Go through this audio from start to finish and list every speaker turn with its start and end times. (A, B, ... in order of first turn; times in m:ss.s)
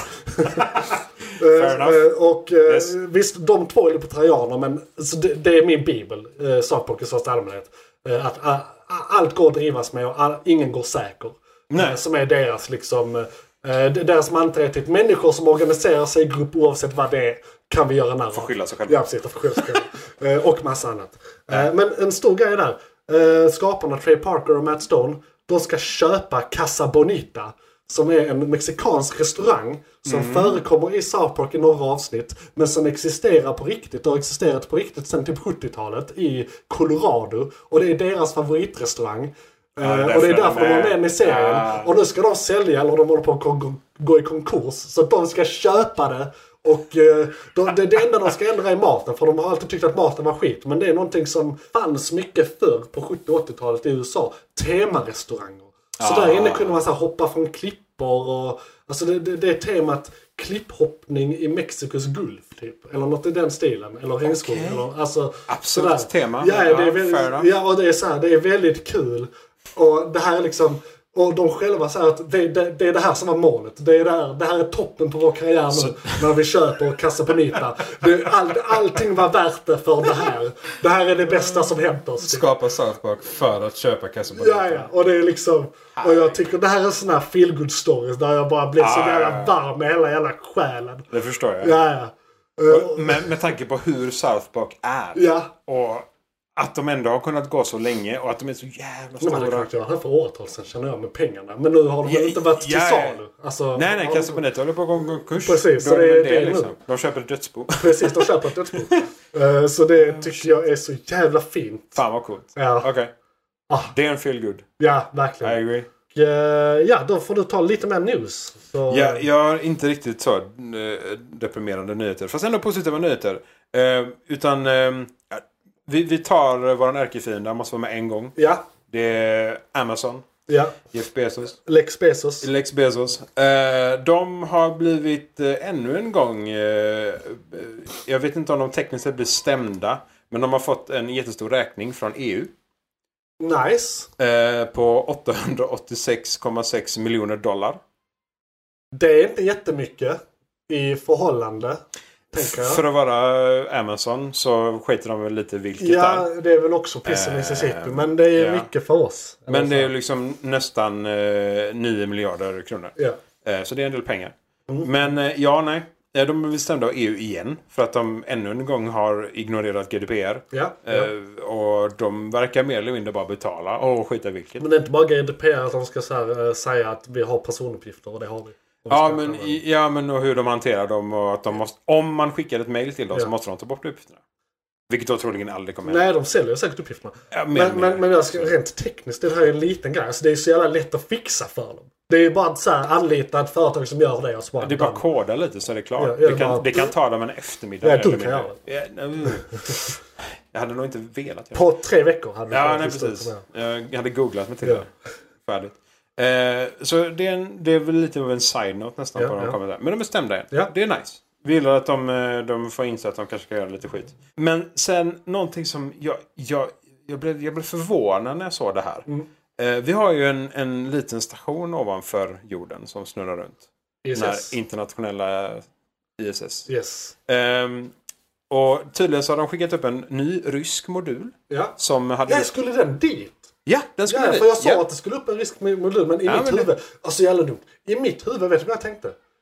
0:00.2-1:22.4 A
0:00.6-0:02.0 B
0:02.6-0:02.9 B
0:11.7-0:12.0 B
0:18.3-0:19.7 B
0:30.0-0:30.6 B
0:39.8-0:41.9 B
0:56.0-0:56.8 B
1:04.2-1:04.8 B
1:05.5-1:07.5 B
1:15.7-1:16.3 B
1:21.3-1:24.9 B
1:24.3-1:31.1 A
1:26.0-1:26.4 B
1:28.8-1:29.6 B
1:31.1-1:31.8 B
1:31.6-1:33.3 A
1:32.7-1:39.7 B
1:35.1-1:35.5 A
1:39.2-1:44.4 A
1:42.0-1:43.2 B
1:43.7-1:48.3 B
1:45.3-1:46.7 A
1:47.8-1:52.0 A
1:50.0-1:50.6 B
1:51.9-1:53.1 B
1:52.5-1:52.9 A
1:53.7-1:53.9 A
1:53.9-1:54.6 B
1:54.8-1:59.2 A
1:55.4-1:55.9 B
1:58.9-2:08.4 B
2:08.4-2:08.6 A
2:08.9-2:10.2 B
2:10.5-2:10.8 A
2:10.9-2:11.6 B
2:11.6-2:12.5 A
2:12.4-2:22.5 B
2:23.4-2:24.1 A
2:24.2-2:27.8 B
2:28.9-2:30.2 A
2:30.7-2:31.8 A
2:32.3-2:32.8 A
2:32.4-2:36.3 B
2:35.8-2:39.9 A
2:37.0-2:38.7 B
2:39.5-2:54.6 B
2:50.5-2:51.1 A
2:54.6-2:59.6 A
2:58.9-3:04.2 B
3:04.9-3:06.1 B
3:05.8-3:15.0 A
3:07.3-3:08.5 B
3:14.6-3:21.6 B
3:16.0-3:16.9 A
3:17.8-3:18.6 A
3:21.5-3:23.4 A
3:22.5-3:24.9 B
3:25.4-3:45.7 B
3:29.2-3:29.6 A
3:44.0-3:44.5 A
3:46.2-3:46.7 B
3:46.7-3:47.1 A
3:47.3-3:47.9 B
3:48.5-3:52.5 B
3:51.5-3:51.7 A
3:52.3-3:53.5 A
3:53.6-3:54.8 B
3:54.1-3:59.2 A
3:56.2-3:56.7 B